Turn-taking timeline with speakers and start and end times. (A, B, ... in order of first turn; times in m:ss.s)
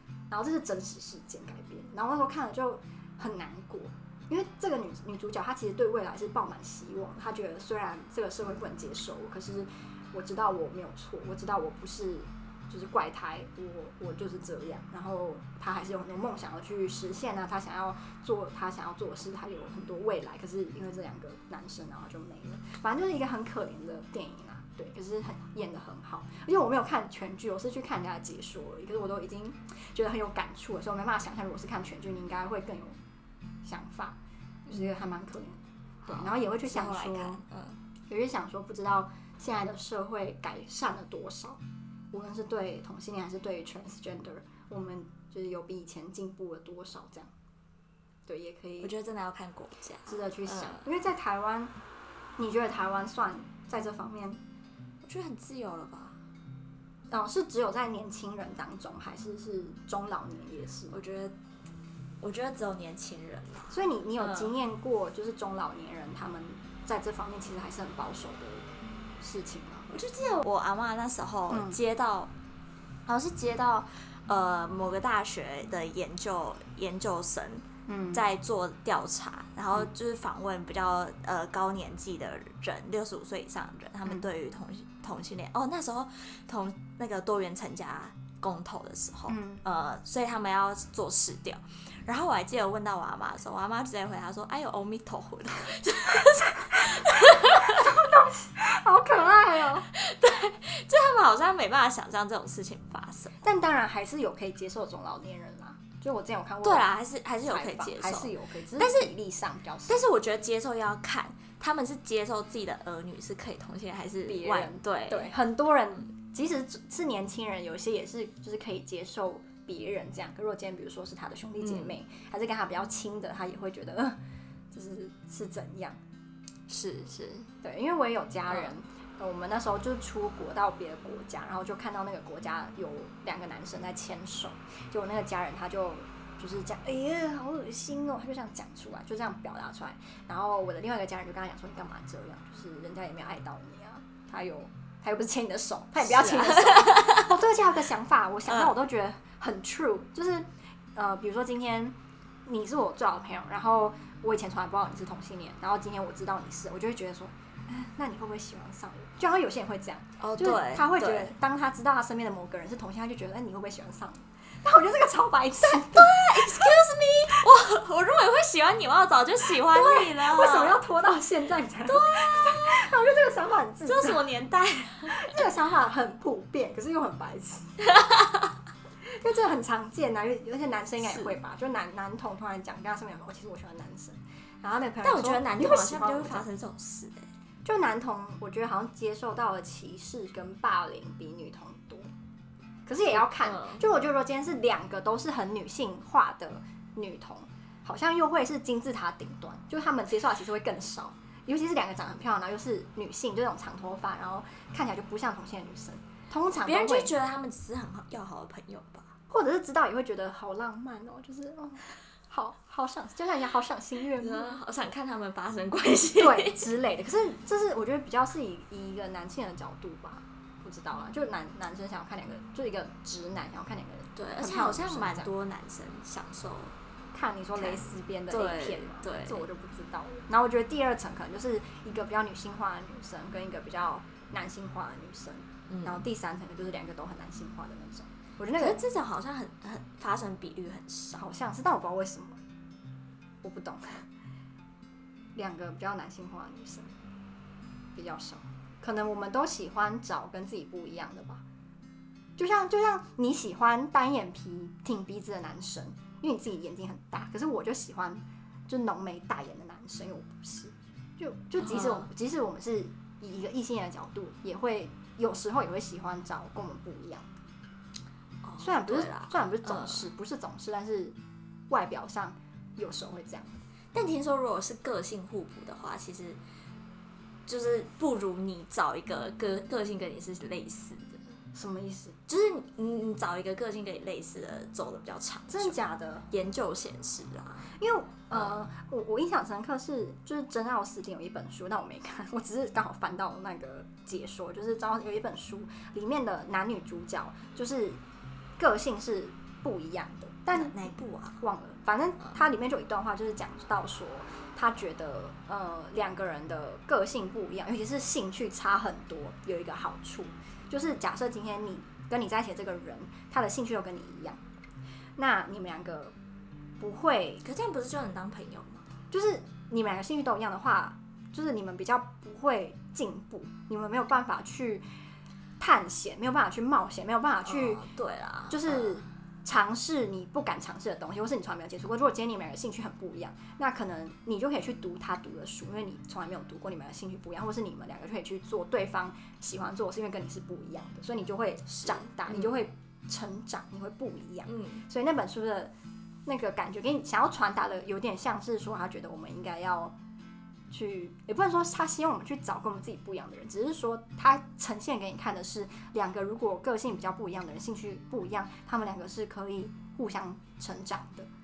0:00.3-0:33.0 A
0:33.6-0:34.2 A
0:34.7-0:37.4 A
0:36.0-0:37.8 B
0:38.1-0:41.6 A
0:42.1-0:47.3 A
0:48.3-0:48.9 A
0:48.8-0:50.8 B
0:50.1-0:51.7 A
0:52.4-0:54.4 A
0:55.0-0:56.2 B
0:57.1-1:01.0 A
1:00.9-1:01.3 B
1:02.2-1:04.5 B
1:03.7-1:09.9 A
1:09.9-1:12.3 B
1:11.5-1:11.8 A
1:13.0-1:37.9 B
1:17.9-1:18.2 A
1:29.3-1:29.6 A
1:36.8-1:39.9 A
1:39.9-1:43.4 B
1:43.4-1:46.9 A
1:46.6-1:49.1 B
1:47.4-1:50.0 A
1:49.9-1:55.3 B
1:54.2-2:04.2 A
2:01.6-2:02.0 B
2:04.7-2:06.0 A
2:06.7-2:07.5 B
2:07.6-2:47.5 A
2:08.5-2:08.7 B
2:26.0-2:27.5 B
2:40.2-2:41.3 B
2:45.6-2:50.8 B
2:49.5-2:54.3 A
2:51.8-2:53.0 B
2:53.8-2:55.4 B
2:55.0-2:57.8 A
2:57.9-2:58.5 B
2:59.2-3:06.5 A
3:01.0-3:01.3 B
3:05.0-3:07.3 B
3:07.6-3:12.1 A
3:12.8-3:27.1 A
3:13.1-3:13.8 B
3:26.5-3:29.1 B
3:29.3-3:34.6 A
3:34.2-3:36.7 B
3:36.2-3:45.3 A
3:44.1-3:46.7 B
3:47.1-3:58.8 A
3:47.6-3:49.4 B
3:55.7-3:56.0 B
3:58.6-4:01.2 B
4:01.2-4:02.4 A
4:03.4-4:04.0 A
4:05.3-4:06.9 A
4:07.9-4:11.4 A
4:12.4-4:27.3 A
4:21.6-4:22.1 B
4:28.4-4:30.1 B
4:28.6-4:31.2 A
4:31.7-4:33.6 A
4:33.9-4:36.4 B
4:37.5-4:41.2 B
4:41.5-4:42.2 A
4:42.3-4:45.8 B
4:45.5-4:46.3 A
4:46.3-4:47.7 B
4:47.7-4:58.0 A
4:58.6-5:14.4 A
5:00.5-5:01.4 B
5:15.2-5:16.1 A
5:16.8-5:17.4 A
5:17.4-5:18.9 B
5:19.1-5:24.8 A
5:25.6-5:27.8 A
5:27.4-5:29.0 B
5:28.5-5:45.7 A
5:41.7-5:42.6 B
5:44.4-5:44.8 B
5:46.2-5:49.9 A
5:50.7-6:01.3 A